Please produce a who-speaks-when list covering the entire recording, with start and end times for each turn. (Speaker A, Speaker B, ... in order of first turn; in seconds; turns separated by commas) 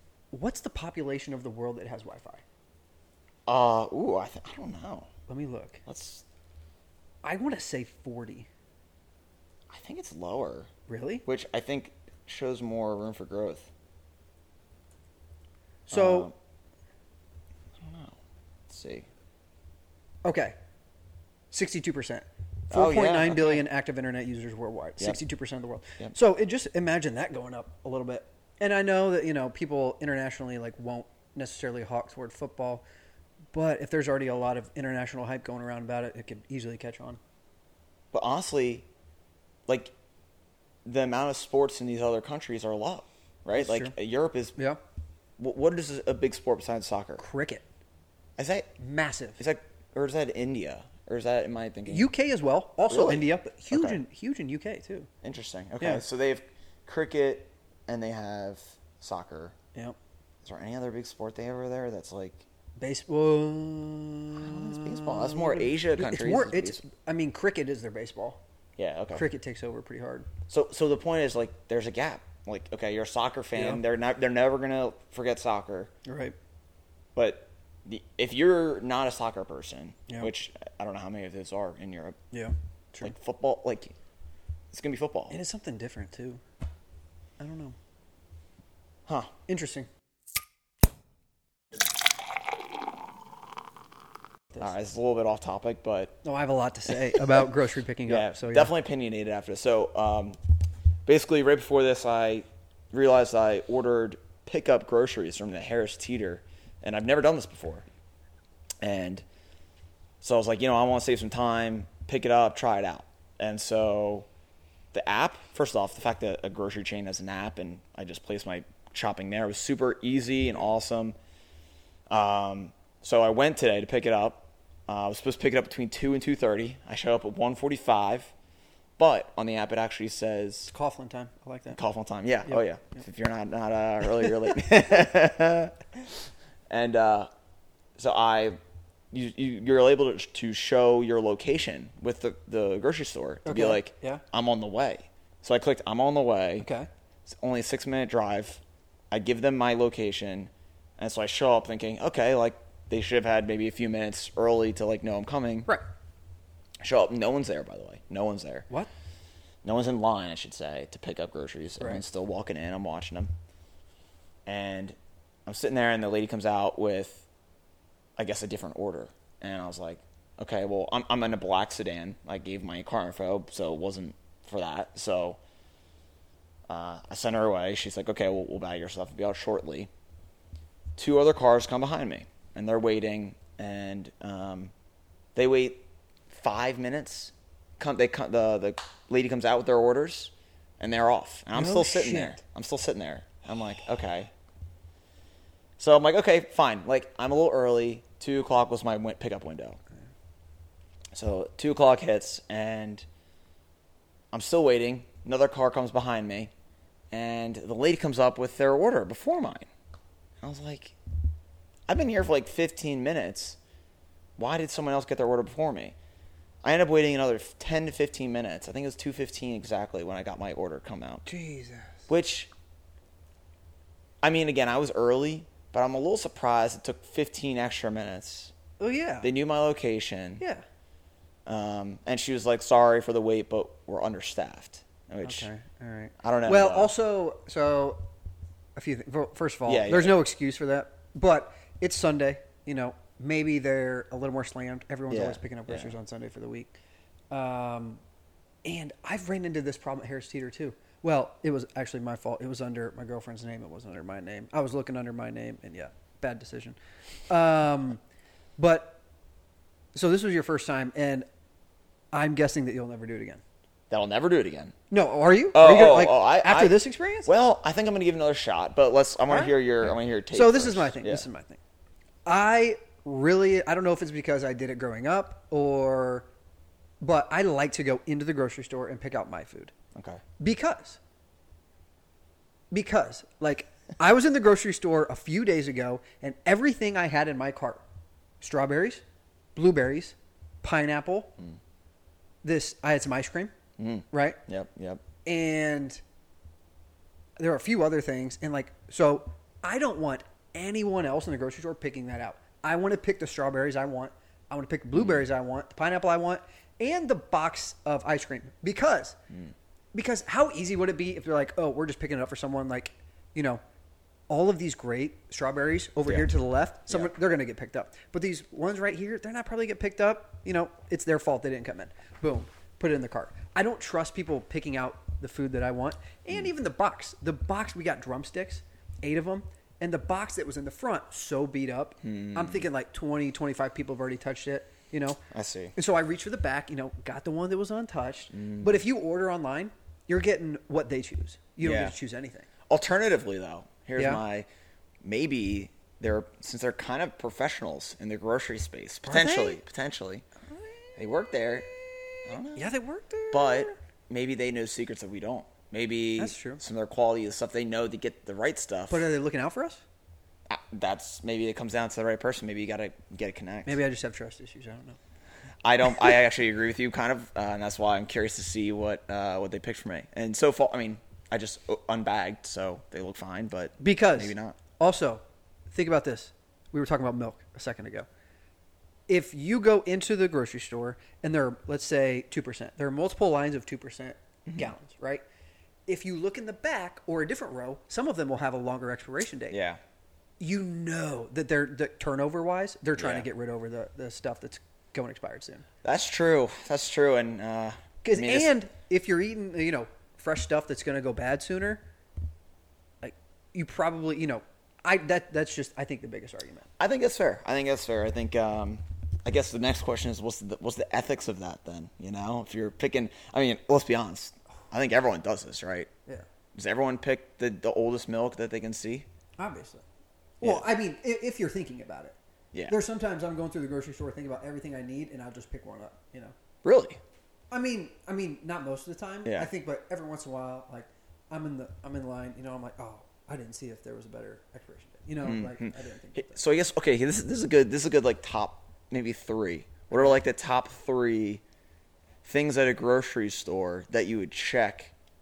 Speaker A: 0.3-2.4, Speaker B: 3.5-5.1, Speaker A: 5.3-5.8, Speaker B: 5.8-6.2, Speaker A: 7.2-8.5, Speaker B: 9.7-10.7, Speaker A: 10.9-11.2, Speaker B: 11.2-13.7, Speaker A: 15.9-16.3, Speaker B: 15.9-16.3, Speaker B: 17.8-18.2, Speaker B: 18.7-19.1, Speaker A: 20.2-20.5, Speaker A: 21.5-32.8, Speaker B: 22.7-23.6, Speaker A: 33.5-37.2, Speaker B: 38.1-38.9, Speaker B: 39.7-39.9, Speaker B: 40.8-44.5, Speaker A: 43.5-43.9, Speaker B: 45.4-47.2, Speaker A: 47.2-47.6, Speaker B: 48.4-48.7, Speaker A: 48.8-49.4, Speaker B: 49.4-52.1, Speaker A: 51.9-55.1, Speaker B: 52.9-54.0, Speaker B: 55.2-59.5, Speaker B: 60.4-62.4, Speaker A: 62.8-68.4, Speaker B: 64.3-66.8, Speaker B: 68.8-69.2, Speaker A: 69.1-70.3, Speaker B: 70.5-75.9, Speaker A: 73.5-73.8, Speaker A: 76.0-76.3, Speaker B: 77.1-82.2, Speaker A: 82.3-83.1, Speaker B: 83.0-83.9, Speaker B: 84.7-85.4, Speaker A: 85.3-86.4, Speaker A: 87.4-87.8, Speaker B: 89.1-89.3, Speaker A: 89.5-89.9, Speaker B: 94.6-96.2, Speaker A: 96.2-98.7, Speaker B: 98.0-100.4, Speaker B: 101.0-107.8, Speaker B: 108.8-109.2, Speaker B: 110.2-114.3, Speaker B: 114.9-121.1, Speaker B: 122.1-128.3, Speaker B: 129.0-130.7, Speaker A: 130.7-131.8, Speaker B: 131.7-137.3, Speaker A: 132.4-133.0, Speaker B: 138.0-138.6, Speaker B: 139.1-146.7, Speaker A: 143.4-144.2, Speaker A: 146.6-146.9, Speaker B: 147.2-155.7, Speaker B: 156.8-158.7, Speaker B: 159.6-163.3, Speaker A: 161.8-162.0, Speaker B: 164.4-167.2, Speaker B: 168.2-175.4, Speaker B: 176.7-179.9, Speaker B: 181.0-184.7, Speaker B: 185.3-194.3, Speaker A: 191.5-192.4, Speaker B: 195.8-199.8, Speaker B: 201.1-203.0, Speaker B: 204.3-206.5, Speaker B: 207.1-209.7, Speaker B: 210.4-210.9, Speaker B: 211.9-213.6, Speaker B: 214.4-215.9, Speaker B: 216.6-221.2, Speaker A: 221.2-222.1, Speaker B: 222.1-222.5, Speaker B: 224.2-228.5, Speaker A: 228.8-229.3, Speaker B: 229.2-230.4, Speaker B: 231.4-235.5, Speaker A: 235.2-238.1, Speaker B: 236.2-236.9, Speaker A: 238.8-246.7, Speaker B: 239.7-240.2, Speaker B: 245.1-245.9, Speaker A: 247.3-248.0, Speaker A: 248.6-256.8, Speaker A: 257.3-258.0, Speaker A: 258.6-259.0, Speaker A: 259.9-261.3, Speaker A: 262.1-263.4, Speaker B: 263.9-264.7, Speaker A: 264.9-267.3, Speaker B: 265.5-271.2, Speaker A: 269.3-271.6, Speaker A: 272.2-276.3, Speaker A: 277.0-279.7, Speaker B: 279.9-280.2, Speaker A: 280.4-281.0, Speaker A: 282.7-287.8, Speaker A: 288.4-289.0, Speaker A: 289.6-291.3, Speaker A: 292.4-293.5, Speaker B: 293.8-295.0, Speaker A: 294.1-294.4, Speaker A: 295.2-296.0, Speaker A: 297.4-309.2, Speaker B: 304.9-305.2, Speaker A: 309.9-313.6, Speaker A: 314.3-335.2, Speaker B: 332.0-332.7, Speaker B: 335.3-335.7, Speaker A: 335.8-342.5, Speaker B: 338.3-338.8, Speaker B: 341.6-341.9, Speaker B: 342.7-344.5, Speaker A: 344.0-344.2, Speaker B: 345.0-350.2, Speaker A: 349.0-349.6, Speaker B: 350.9-351.7, Speaker B: 352.2-352.7, Speaker A: 352.6-353.8, Speaker B: 353.3-359.1, Speaker A: 356.2-356.6, Speaker A: 358.9-359.8, Speaker B: 360.5-363.8, Speaker A: 363.6-365.0, Speaker B: 365.6-374.6, Speaker A: 373.8-378.1, Speaker A: 379.1-385.2, Speaker B: 384.4-384.7, Speaker A: 385.9-389.6, Speaker B: 389.5-389.8, Speaker A: 390.4-395.6, Speaker B: 393.0-393.3, Speaker B: 395.8-398.5, Speaker A: 398.0-401.8, Speaker A: 403.0-406.7, Speaker B: 406.8-415.9, Speaker B: 416.5-419.1, Speaker A: 419.4-419.8, Speaker A: 420.4-422.1, Speaker B: 420.4-420.7, Speaker A: 422.7-426.3, Speaker B: 426.6-427.0, Speaker A: 427.5-436.4, Speaker B: 429.2-429.5, Speaker B: 435.2-441.4, Speaker B: 442.2-444.9